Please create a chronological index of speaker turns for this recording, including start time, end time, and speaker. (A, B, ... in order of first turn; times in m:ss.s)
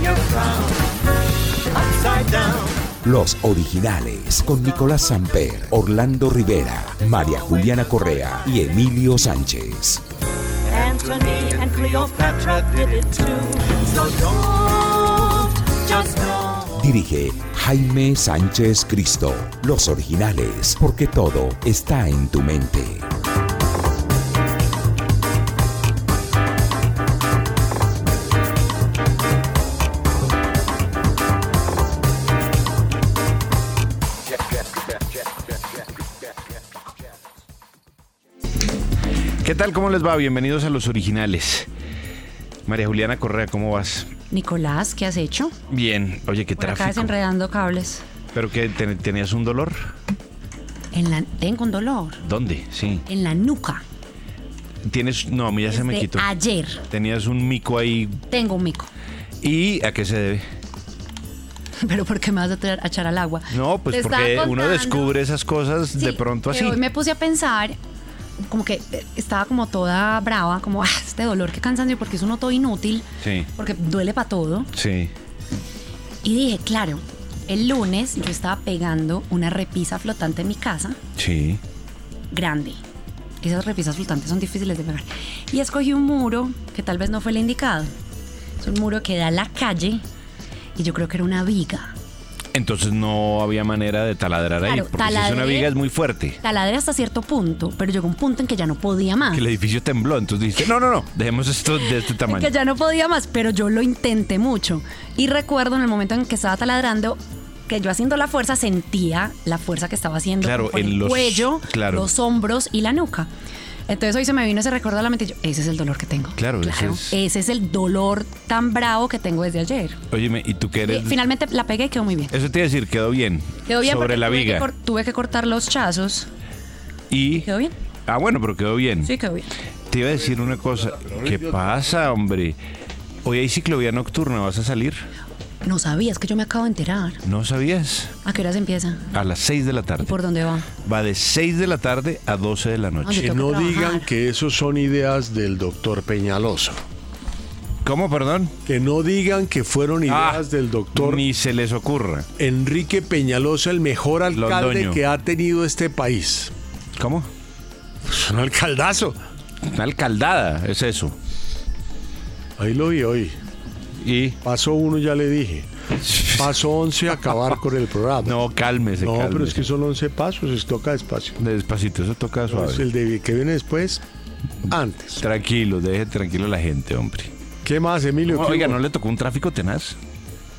0:03.0-0:10.0 A
0:10.7-0:15.1 B
0:15.9-0:16.4 B
0:16.6-0:23.1 A
0:39.4-0:41.7 C
0:42.7-0:44.1 C
0:44.3-0:45.5 D
0:45.7-0:47.1 C
0:46.6-0:48.0 D
0:48.3-0:49.9 C
0:50.9-0:52.2 D
0:52.2-0:53.0 C
0:53.1-0:53.8 D
0:54.8-0:56.3 C
0:55.7-0:56.8 D
0:56.9-0:58.2 C
0:58.3-0:58.9 D
0:59.4-1:00.4 C
1:01.8-1:05.1 D
1:03.5-1:06.8 C
1:06.0-1:07.8 D
1:08.5-1:13.0 D
1:13.2-1:13.5 C
1:13.6-1:14.7 D
1:14.7-1:15.1 C
1:16.2-1:21.0 D
1:21.2-1:21.6 C
1:22.3-1:22.8 D
1:23.4-1:27.9 D
1:28.6-1:30.0 D
1:30.8-1:31.9 D
1:32.5-1:36.4 C
1:34.6-1:35.7 D
1:36.4-1:39.4 D
1:39.3-1:42.5 C
1:42.2-1:53.3 D
1:50.4-1:52.1 C
1:53.9-2:00.0 D
1:56.4-1:57.1 C
2:00.1-2:01.2 C
2:00.8-2:02.3 D
2:02.3-2:04.7 C
2:03.6-2:06.3 D
2:07.1-2:07.5 C
2:07.4-2:07.7 D
2:08.1-2:09.1 C
2:09.0-2:09.5 D
2:09.9-2:12.6 C
2:10.2-2:11.9 E
2:13.2-2:15.1 C
2:15.6-2:17.2 D
2:17.2-2:18.1 C
2:18.2-2:19.0 D
2:19.1-2:20.1 C
2:20.0-2:20.7 D
2:20.8-2:23.3 C
2:23.0-2:24.1 D
2:23.2-2:26.8 E
2:27.8-2:28.5 C
2:28.7-2:31.2 E
2:30.1-2:32.3 C
2:32.4-2:36.5 E
2:34.3-2:35.0 C
2:37.0-2:37.3 C
2:38.0-2:39.2 E
2:39.6-2:41.1 C
2:42.6-2:43.4 E
2:44.0-2:44.4 C
2:44.4-2:45.7 E
2:46.0-2:46.5 C
2:46.2-2:48.4 E
2:48.2-2:49.6 C
2:49.0-2:51.4 E
2:51.4-2:52.8 C
2:52.5-2:54.0 E
2:54.7-2:55.2 E
2:54.7-2:57.3 C
2:57.6-2:58.8 E
2:58.2-3:00.0 C